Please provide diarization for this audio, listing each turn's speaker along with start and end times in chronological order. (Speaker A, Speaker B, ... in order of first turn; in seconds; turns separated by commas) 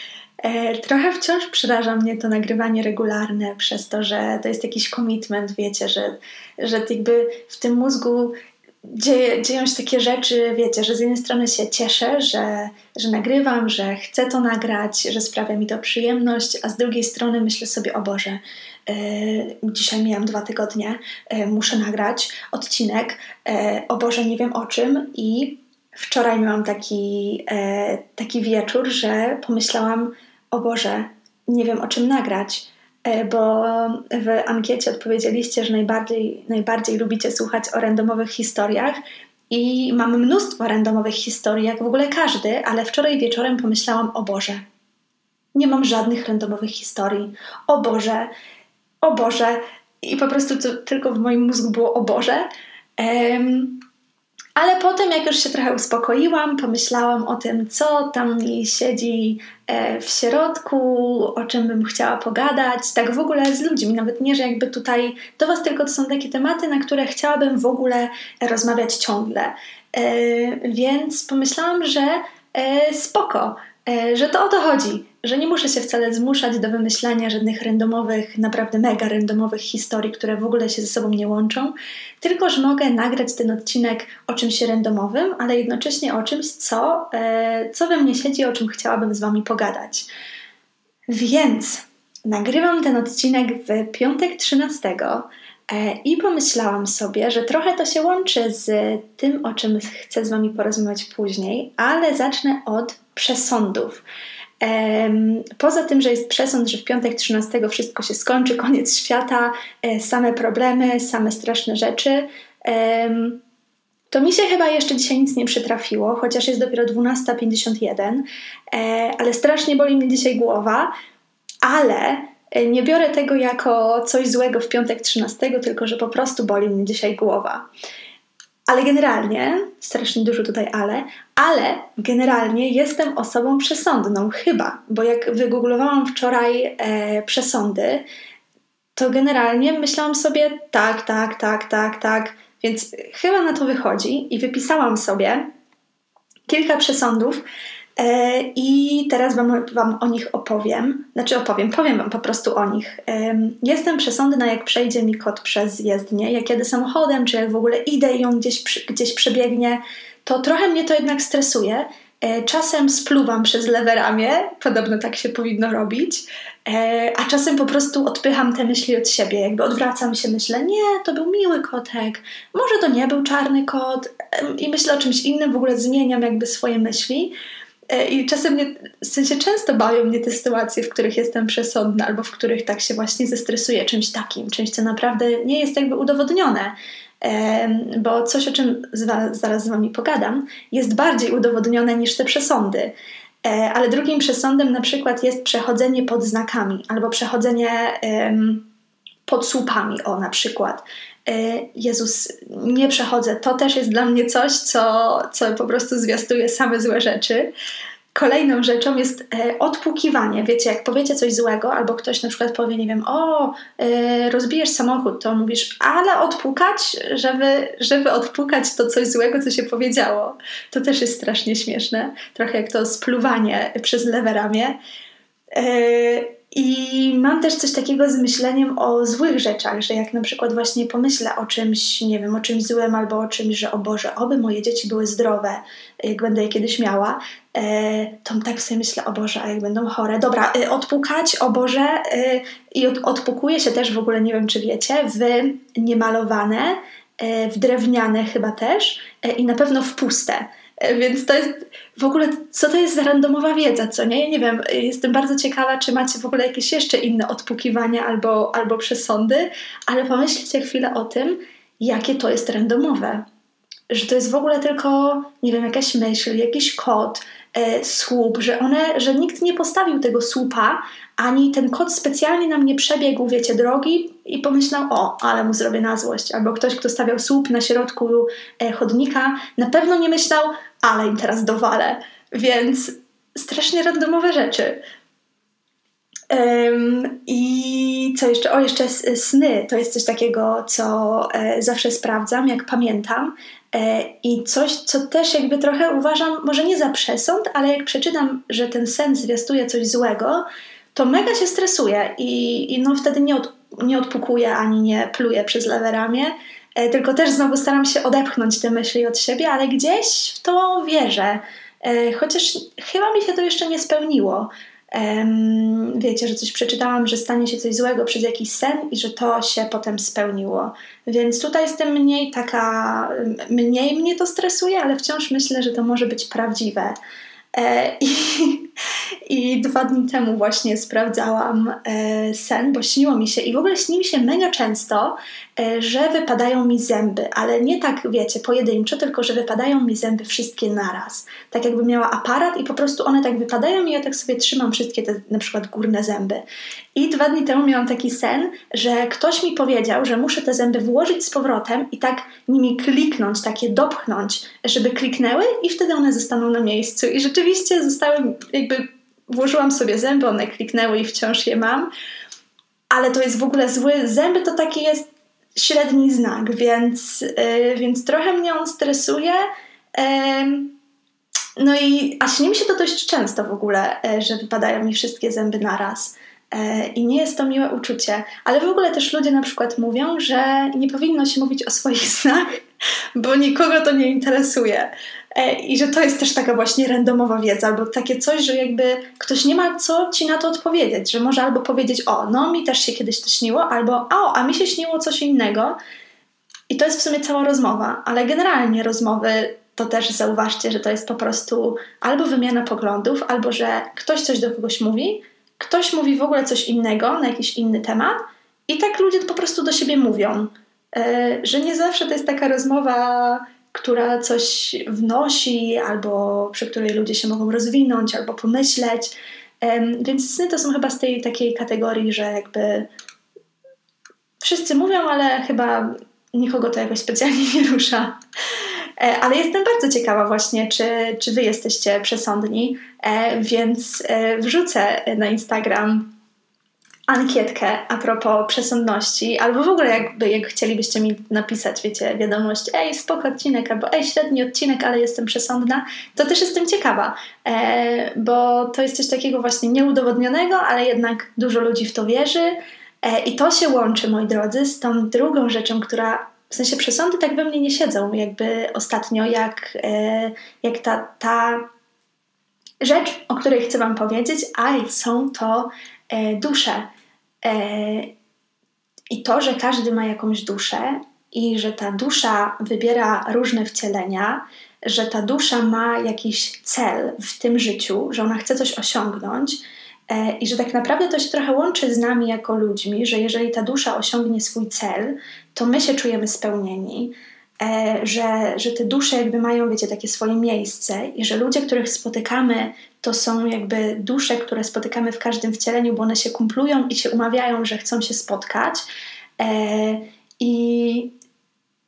Speaker A: 0.4-44.6, Speaker A: 45.5-48.3, Speaker A: 49.0-52.5, Speaker A: 53.0-53.8, Speaker A: 54.5-90.1, Speaker A: 91.1-104.0, Speaker A: 104.6-113.4, Speaker A: 114.1-120.9, Speaker A: 121.6-127.7, Speaker A: 128.7-138.1, Speaker A: 138.9-145.5, Speaker A: 146.5-147.4, Speaker A: 148.0-177.3, Speaker A: 177.9-198.7, Speaker A: 199.2-207.5, Speaker A: 208.1-224.8, Speaker A: 225.5-263.2, Speaker A: 263.9-284.8, Speaker A: 286.3-327.0, Speaker A: 327.5-328.7, Speaker A: 329.2-346.4, Speaker A: 346.9-361.9, Speaker A: 362.9-370.8, Speaker A: 371.6-382.6, Speaker A: 383.1-395.8, Speaker A: 396.7-422.9, Speaker A: 424.4-428.2, Speaker A: 429.0-436.1, Speaker A: 437.1-461.7, Speaker A: 462.8-466.9, Speaker A: 467.4-468.1, Speaker A: 469.1-498.9, Speaker A: 499.4-501.1